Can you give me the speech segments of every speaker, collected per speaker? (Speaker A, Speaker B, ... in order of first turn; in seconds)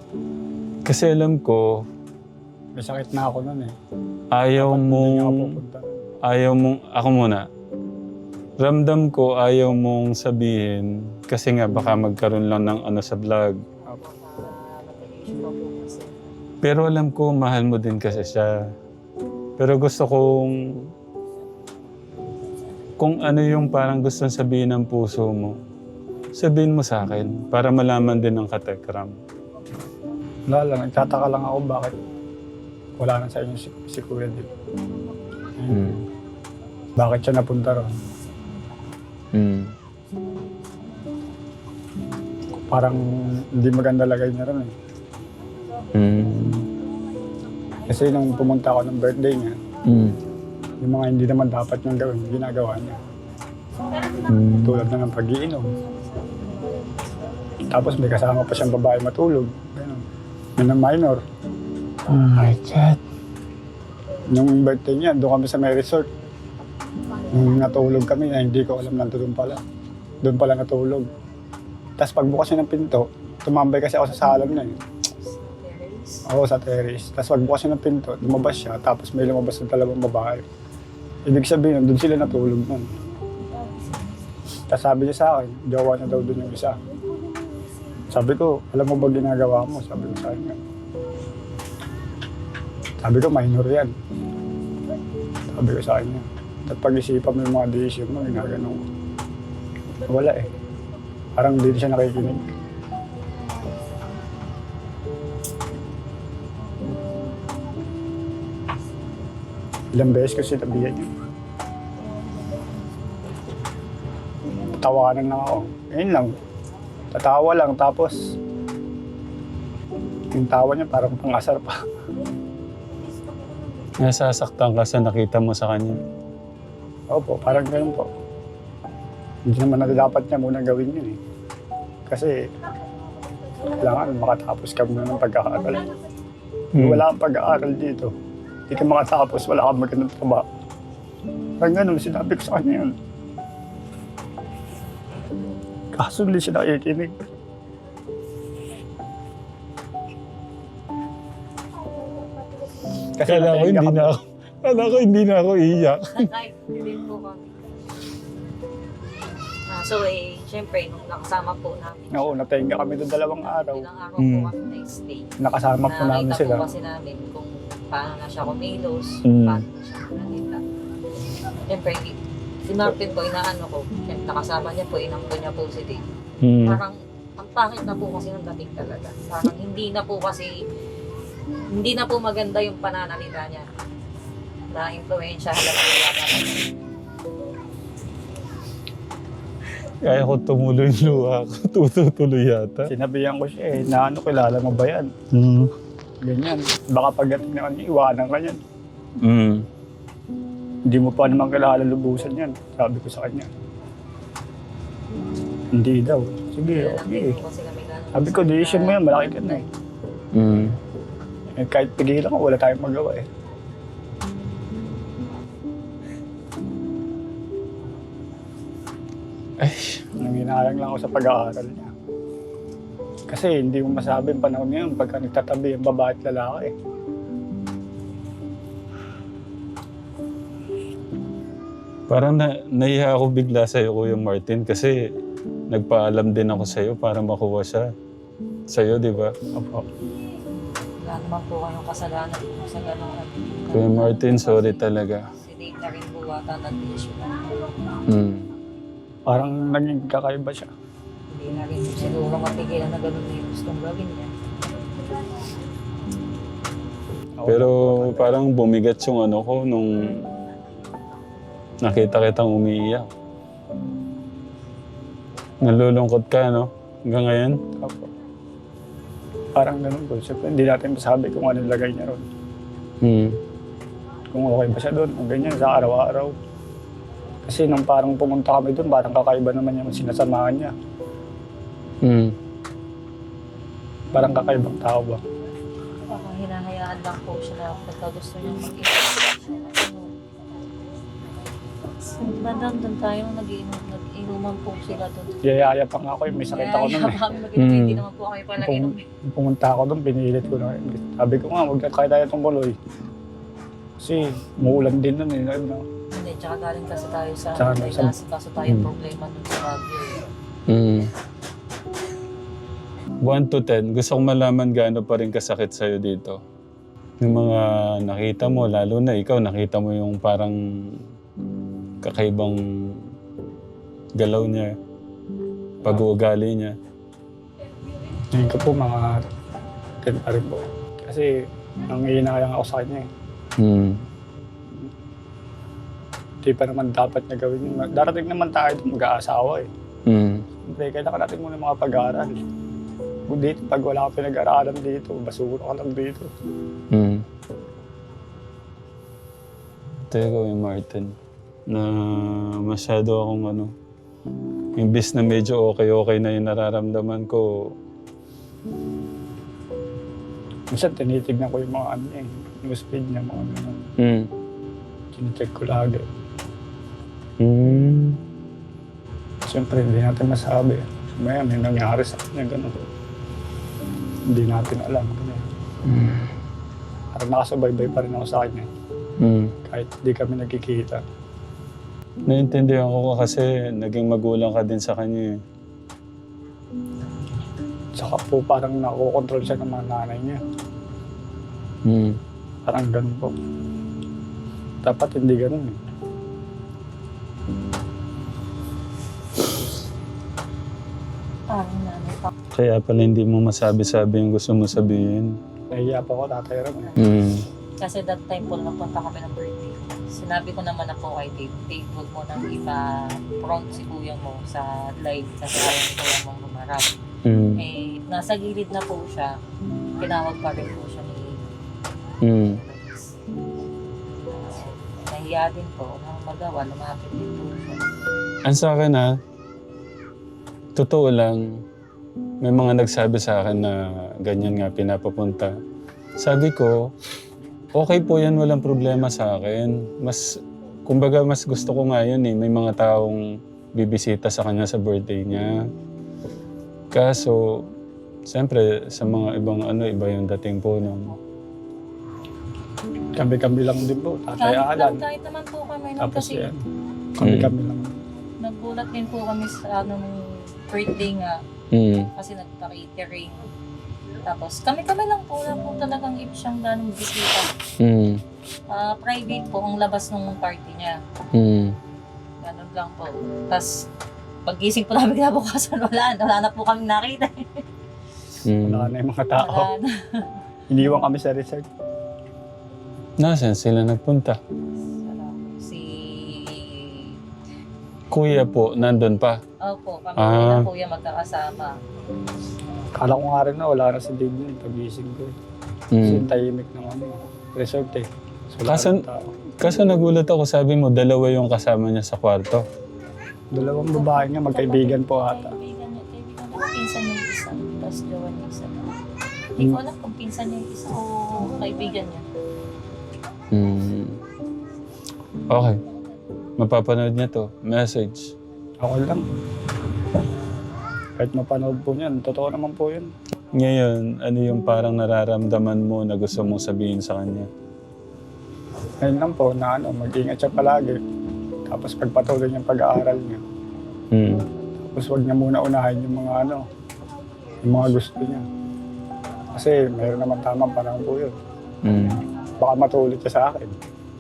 Speaker A: 0.8-1.8, 4.3-5.5, 6.2-7.5, 8.6-13.6, 16.6-18.6, 19.6-20.6, 23.0-25.6, 26.3-29.1, 35.7-36.0, 39.3-39.7, 45.9-46.7, 49.9-50.2, 54.2-54.8, 62.1-63.0, 124.0-126.0, 136.7-137.0, 153.2-156.2, 164.2-164.5, 169.2-169.6, 176.4-176.8, 190.0-192.9, 195.3-195.7, 199.2-199.7, 210.3-210.8, 219.6-220.0, 232.1-235.0, 235.7-237.9, 238.7-239.3, 243.7-245.3, 248.1-248.5, 257.4-260.3, 261.8-263.1, 265.6-267.6, 273.0-273.4, 282.0-282.3, 297.6-298.0, 310.7-311.1, 313.2-316.4, 317.2-321.0, 322.0-323.0, 324.2-324.7, 325.8-326.8, 333.6-334.0, 340.1-340.4, 346.9-347.2, 350.1-351.1, 351.7-353.7, 354.8-357.7, 364.0-364.3, 367.4-368.2, 375.8-376.3, 379.2-379.5, 382.3-385.4, 391.8-392.2, 402.5-405.4, 407.0-407.4, 417.2-417.6, 422.2-422.6, 428.4-429.2, 430.8-431.6, 432.4-435.6, 436.2-436.9, 437.7-443.2, 443.7-445.7, 446.9-447.7, 448.2-451.2, 457.2-457.5, 461.7-462.1, 467.8-468.2, 471.3-471.8, 478.4-478.9, 483.2-484.4, 488.1-489.4, 490.2-490.7, 495.9-496.3, 498.6-499.0, 499.6-502.6, 513.5-514.2, 515.5-515.8, 516.6-518.3, 523.5-527.5, 534.1-534.5, 541.8-542.2
Speaker B: 2.8-3.7, 4.5-6.0, 30.5-31.9, 33.0-34.5, 37.0-37.9, 42.7-44.7, 47.9-49.6, 50.8-53.0, 54.6-55.7, 57.6-60.0, 60.6-61.2, 64.3-66.1, 67.3-69.6, 70.2-71.1, 72.0-74.8, 76.2-80.4, 81.3-82.9, 84.7-86.8, 88.1-90.5, 93.0-93.9, 95.5-98.8, 100.1-100.5, 101.3-102.4, 109.9-111.1, 114.6-116.3, 117.1-118.2, 120.3-121.7, 127.1-128.1, 129.4-131.2, 132.1-132.4, 133.8-135.9, 136.8-138.1, 138.7-140.4, 141.6-142.9, 145.9-147.1, 153.2-154.2, 162.1-163.8, 165.4-166.6, 192.8-195.3, 196.2-198.6, 200.9-203.5, 205.7-207.3, 208.1-209.6, 211.5-213.2, 220.2-221.9, 223.3-226.7, 239.5-239.8, 249.3-250.7, 257.4-258.4, 267.8-268.1, 269.5-272.2, 274.3-276.3, 277.4-280.7, 284.1-285.2, 295.4-297.2, 298.6-302.8, 304.0-305.8, 307.6-308.1, 328.3-329.2, 330.0-331.3, 331.9-333.1, 336.4-339.7, 340.6-342.4, 343.3-346.3, 360.7-363.8, 365.1-366.0, 369.4-372.8, 374.3-375.5, 377.1-378.7, 379.6-381.0, 387.9-390.4, 392.6-393.3, 394.8-395.8, 405.7-407.0, 453.1-455.0, 456.0-456.6, 457.2-457.9, 478.6-479.7, 480.7-481.6, 492.9-495.3, 496.0-499.3, 503.5-505.5, 518.8-519.2, 521.2-523.1, 529.0-531.0, 531.6-533.4, 534.8-536.6, 537.6-538.4, 539.5-541.3, 542.6-543.7
Speaker C: 13.8-16.3, 75.1-76.3, 83.6-84.0, 156.1-157.7, 159.7-162.4, 163.4-165.3, 165.8-170.6, 171.7-172.2, 172.7-176.0, 176.7-180.6, 181.7-183.6, 184.7-186.7, 206.7-209.6, 241.0-247.4, 251.3-254.3, 286.1-290.1, 292.0-295.5, 296.5-299.0, 306.1-310.2, 401.5-402.3, 407.8-417.0, 417.6-419.4, 420.0-421.5, 422.4-423.2, 424.2-427.8, 454.4-456.5, 458.4-461.4, 462.1-463.5, 464.2-467.5, 468.7-471.0, 472.4-473.7, 474.4-477.6, 479.4-480.3, 484.9-487.2, 489.6-491.8, 503.9-508.9, 509.6-512.2